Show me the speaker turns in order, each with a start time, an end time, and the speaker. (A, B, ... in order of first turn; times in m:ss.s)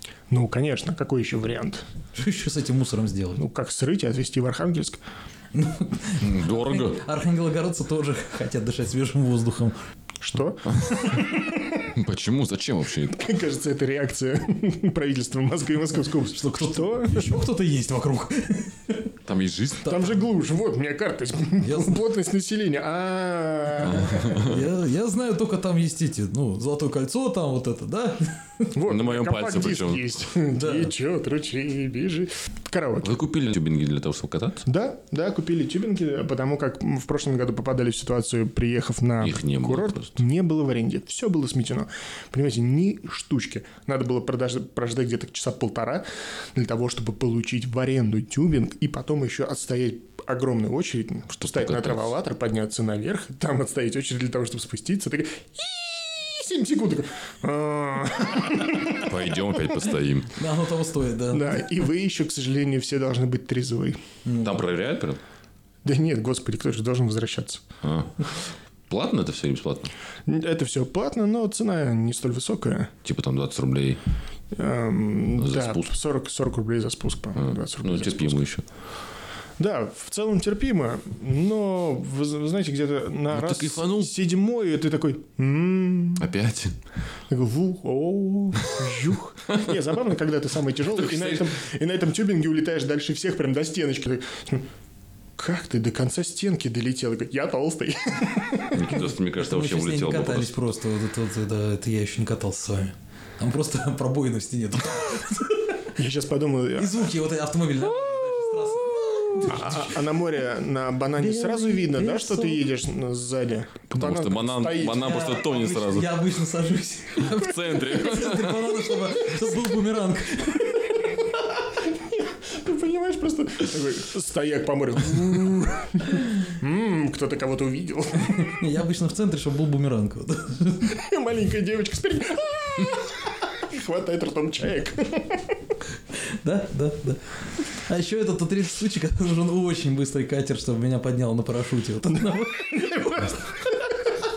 0:00.3-0:01.8 A
0:02.1-0:03.4 B
0:03.4-0:05.0 A
0:05.5-0:09.8 B
0:06.2-0:07.0 C
0:10.2-0:11.8 A
0:10.7-0:11.2 C
0:11.8-0:13.2 C
0:13.1-0:17.4 A
0:16.3-0:19.1 B
0:19.2-0:20.1 C
0:19.8-0:24.4 A
0:21.6-0:22.0 B
0:23.8-0:24.7 C
0:24.4-0:28.7 B
0:28.7-0:33.1 A
0:28.8-0:30.1 C
0:30.5-0:30.9 B
0:33.0-0:34.6 C
0:34.6-0:59.1 A
0:39.2-0:40.2 C
0:51.3-0:52.1 C
0:58.9-1:00.3 C
1:00.3-1:01.4 B
1:01.3-1:04.0 A
1:04.2-1:04.6 B
1:04.4-1:05.2 C
1:05.8-1:07.6 A
1:07.8-1:08.2 C
1:08.9-1:09.9 C
1:10.3-1:12.9 A
1:13.0-1:14.0 C
1:14.5-1:18.5 A
1:15.4-1:15.9 C
1:17.4-1:18.6 C
1:19.6-1:26.3 A
1:23.3-1:24.1 C
1:26.2-1:26.8 C
1:27.3-1:34.6 A
1:30.9-1:31.5 C
1:35.4-1:39.0 A
1:38.7-1:40.5 C
1:39.4-1:45.9 B
1:46.0-1:47.1 A
1:46.8-1:50.1 B
1:49.5-1:55.2 A
1:51.2-1:52.6 B
1:53.9-1:56.2 C
1:54.9-2:01.1 B
1:57.2-1:59.0 C
2:01.8-2:08.6 A
2:08.3-2:11.0 B
2:10.9-2:15.6 A
2:16.2-2:23.7 B
2:22.7-2:23.1 A